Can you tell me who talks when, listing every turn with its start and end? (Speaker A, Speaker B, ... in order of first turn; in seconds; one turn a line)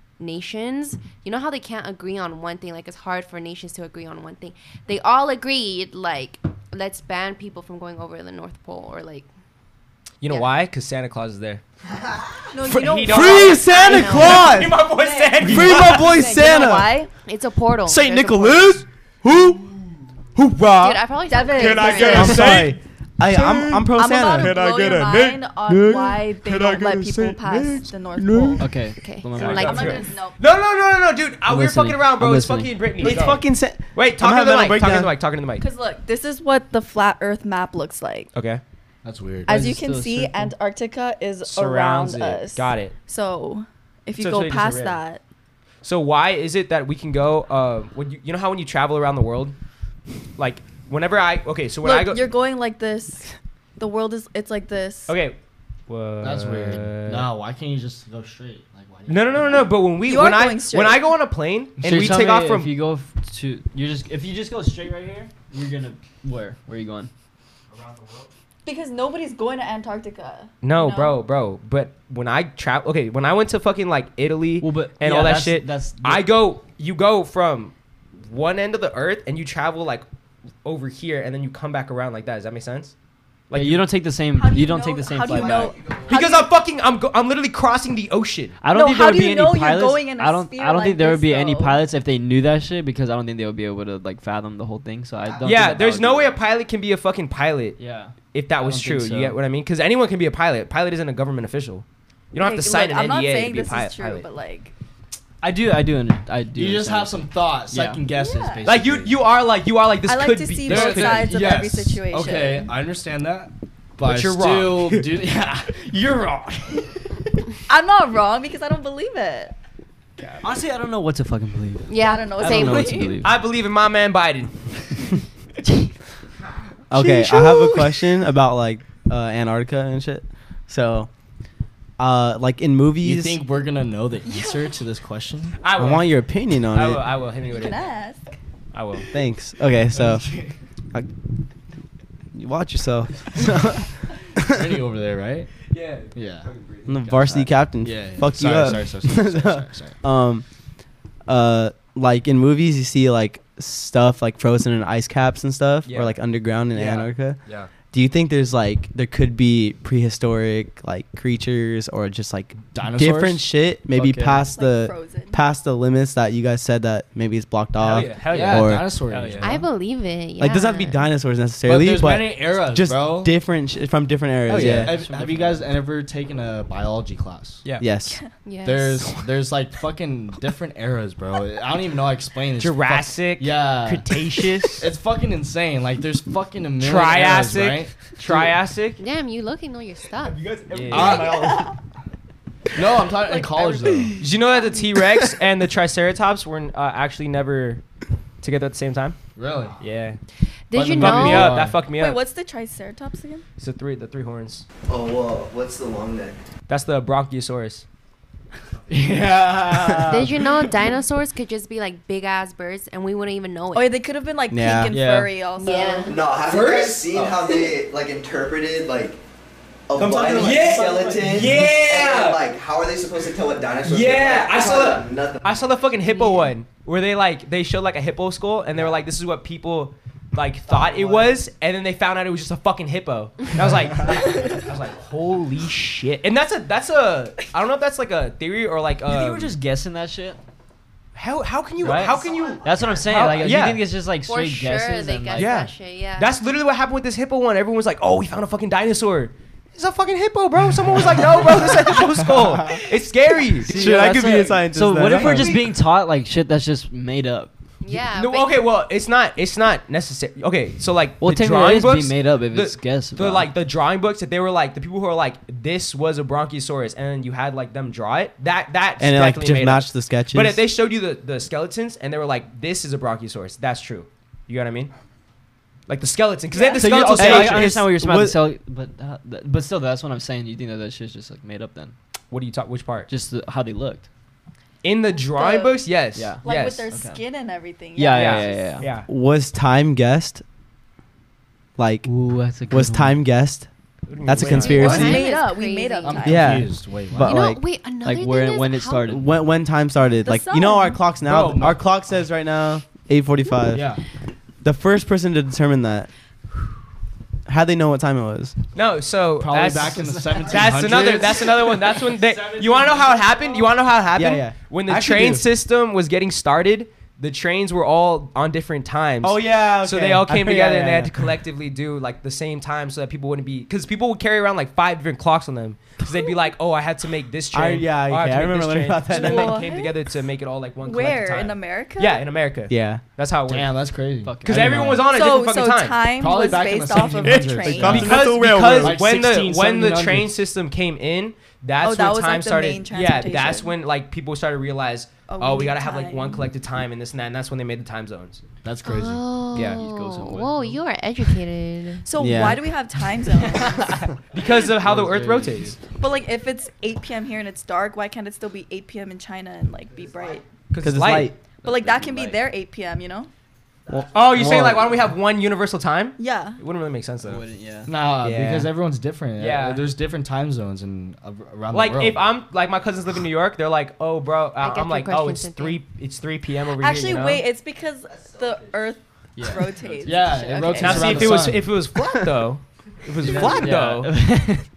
Speaker A: 0.2-9.2
Speaker B: 10.2-11.6
Speaker A: 10.2-10.5
Speaker C: 12.5-13.7
Speaker B: 12.6-16.1
Speaker A: 13.1-14.7
Speaker D: 13.1-14.7
Speaker C: 15.0-17.1
Speaker D: 15.4-16.9
Speaker A: 17.2-18.8
Speaker D: 17.9-19.6
Speaker D: 20.4-21.0
Speaker A: 20.8-22.6
Speaker C: 21.3-22.4
Speaker B: 21.5-22.8
Speaker D: 22.1-28.6
Speaker C: 23.3-28.7
Speaker E: 28.6-30.0
Speaker A: 29.0-30.1
Speaker B: 29.4-33.4
Speaker C: 29.6-30.4
Speaker E: 31.5-32.8
Speaker D: 33.0-35.1
Speaker B: 33.9-35.6
Speaker C: 35.6-38.3
Speaker B: 38.3-38.6
Speaker F: 39.0-39.6
Speaker C: 39.5-45.2
Speaker E: 39.5-40.5
Speaker B: 41.4-42.9
Speaker B: 44.2-45.0
Speaker B: 45.8-49.5
Speaker B: 50.4-52.3
Speaker C: 51.8-55.1
Speaker B: 55.1-55.4
Speaker B: 55.9-57.3
Speaker F: 56.2-59.8
Speaker B: 59.1-62.7
Speaker C: 60.0-61.1
Speaker E: 61.8-67.1
Speaker G: 67.8-68.2
Speaker C: 68.6-71.2
Speaker B: 70.6-80.0
Speaker E: 74.6-76.3
Speaker B: 80.6-82.9
Speaker B: 83.5-83.8
Speaker E: 83.5-85.8
Speaker C: 84.3-86.5
Speaker B: 86.1-88.6
Speaker E: 88.6-96.4
Speaker C: 88.7-91.9
Speaker B: 95.4-97.8
Speaker E: 97.8-99.4
Speaker B: 98.3-104.2
Speaker C: 102.3-104.7
Speaker E: 105.4-108.0
Speaker F: 106.5-109.2
Speaker C: 108.1-108.6
Speaker B: 108.6-111.3
Speaker C: 110.0-112.7
Speaker F: 110.6-115.9
Speaker B: 114.0-115.2
Speaker B: 115.7-116.9
Speaker C: 117.7-119.5
Speaker E: 120.4-123.4
Speaker A: 121.9-123.2
Speaker C: 122.0-123.1
Speaker B: 123.2-124.5
Speaker D: 126.9-131.1
Speaker C: 126.9-128.1
Speaker D: 132.0-133.4
Speaker F: 133.0-135.6
Speaker C: 134.3-134.8
Speaker B: 135.6-137.9
Speaker D: 135.8-137.0
Speaker C: 137.5-138.2
Speaker B: 138.7-139.1
Speaker D: 139.1-140.4
Speaker F: 139.9-140.5
Speaker D: 142.3-144.7
Speaker F: 144.4-145.5
Speaker B: 145.7-147.2
Speaker F: 146.1-146.5
Speaker D: 146.9-150.4
Speaker F: 147.8-150.0
Speaker D: 151.2-157.4
Speaker B: 155.8-156.2
Speaker B: 156.7-157.7
Speaker D: 157.9-168.9
Speaker F: 162.7-163.5
Speaker E: 163.9-164.5
Speaker C: 164.5-165.4
Speaker B: 167.8-169.5
Speaker F: 167.8-169.6
Speaker E: 169.1-169.5
Speaker A: 169.4-171.0
Speaker D: 170.4-174.9
Speaker F: 171.6-173.3
Speaker F: 174.5-177.6
Speaker E: 174.5-175.7
Speaker D: 177.8-178.2
Speaker A: 178.4-179.1
Speaker F: 178.6-184.1
Speaker B: 182.6-184.9
Speaker F: 184.7-188.5
Speaker B: 186.8-189.0
Speaker A: 189.0-190.4
Speaker B: 190.7-191.5
Speaker F: 190.9-191.5
Speaker C: 191.3-191.7
Speaker F: 192.7-194.2
Speaker C: 193.2-194.8
Speaker B: 194.2-197.8
Speaker B: 198.4-199.2
Speaker F: 199.3-199.8
Speaker B: 199.8-200.2
Speaker A: 200.7-201.6
Speaker F: 200.7-201.8
Speaker B: 200.9-202.2
Speaker C: 201.9-203.4
Speaker B: 203.6-204.6
Speaker G: 204.9-206.4
Speaker B: 206.7-207.8
Speaker E: 208.9-210.3
Speaker F: 209.1-210.0
Speaker A: 210.0-214.0
Speaker C: 213.7-216.2
Speaker D: 214.5-214.9
Speaker E: 214.9-215.3
Speaker A: 215.6-216.2
Speaker G: 216.0-219.2
Speaker B: 216.4-217.6
Speaker G: 219.9-225.6
Speaker D: 220.0-221.8
Speaker B: 220.1-222.4
Speaker B: 223.8-239.5
Speaker A: 226.1-226.5
Speaker F: 230.8-231.0
Speaker E: 239.1-240.4
Speaker B: 241.1-243.9
Speaker E: 241.8-245.6
Speaker A: 244.2-246.3
Speaker B: 245.3-254.4
Speaker E: 253.6-257.5
Speaker D: 253.7-255.6
Speaker B: 255.1-255.6
Speaker A: 257.8-258.6
Speaker B: 258.1-274.9
Speaker E: 261.2-263.5
Speaker D: 269.0-270.6
Speaker B: 275.9-277.8
Speaker C: 276.5-276.9
Speaker E: 276.7-281.9
Speaker D: 277.1-278.4
Speaker B: 282.3-283.1
Speaker E: 283.1-284.1
Speaker B: 284.8-286.9
Speaker C: 285.3-285.9
Speaker E: 286.1-287.2
Speaker C: 286.4-288.8
Speaker E: 287.9-288.9
Speaker B: 288.1-289.1
Speaker D: 289.1-290.4
Speaker D: 291.8-292.1
Speaker E: 292.1-293.2
Speaker D: 292.6-293.7
Speaker B: 294.1-295.1
Speaker D: 294.2-295.3
Speaker F: 294.4-295.1
Speaker A: 294.5-296.4
Speaker C: 294.6-296.5
Speaker F: 296.0-297.4
Speaker D: 296.2-297.6
Speaker A: 297.2-299.1
Speaker E: 298.0-299.3
Speaker D: 299.1-303.9
Speaker C: 300.2-301.0
Speaker F: 301.2-301.8
Speaker F: 303.7-304.0
Speaker D: 304.6-306.1
Speaker D: 307.4-308.5
Speaker B: 308.7-333.7
Speaker F: 309.4-313.8
Speaker E: 310.0-310.8
Speaker D: 314.1-315.4
Speaker D: 319.2-321.1
Speaker D: 327.5-329.7
Speaker C: 329.1-329.9
Speaker C: 330.8-332.2
Speaker D: 332.7-333.0
Speaker F: 333.4-335.0
Speaker E: 334.2-335.0
Speaker B: 334.4-336.1
Speaker C: 335.1-338.1
Speaker F: 336.1-340.4
Speaker D: 337.6-339.0
Speaker B: 337.8-348.4
Speaker C: 341.8-343.7
Speaker C: 345.3-346.4
Speaker F: 348.6-349.2
Speaker A: 348.8-352.0
Speaker B: 349.5-349.8
Speaker E: 349.7-350.8
Speaker C: 352.0-353.9
Speaker D: 352.2-352.6
Speaker E: 353.3-355.8
Speaker B: 354.3-355.7
Speaker C: 356.0-360.4
Speaker B: 360.7-361.3
Speaker D: 360.8-361.4
Speaker E: 361.6-362.4
Speaker C: 361.6-363.3
Speaker D: 363.9-365.1
Speaker B: 364.1-367.4
Speaker C: 366.2-366.6
Speaker E: 367.2-367.9
Speaker F: 367.9-372.3
Speaker B: 368.2-368.7
Speaker B: 369.4-369.9
Speaker B: 371.7-377.4
Speaker A: 374.6-375.8
Speaker C: 376.8-381.4
Speaker G: 378.1-378.9
Speaker E: 379.4-380.2
Speaker F: 380.0-381.7
Speaker B: 380.7-384.2
Speaker F: 383.2-383.7
Speaker E: 383.4-384.6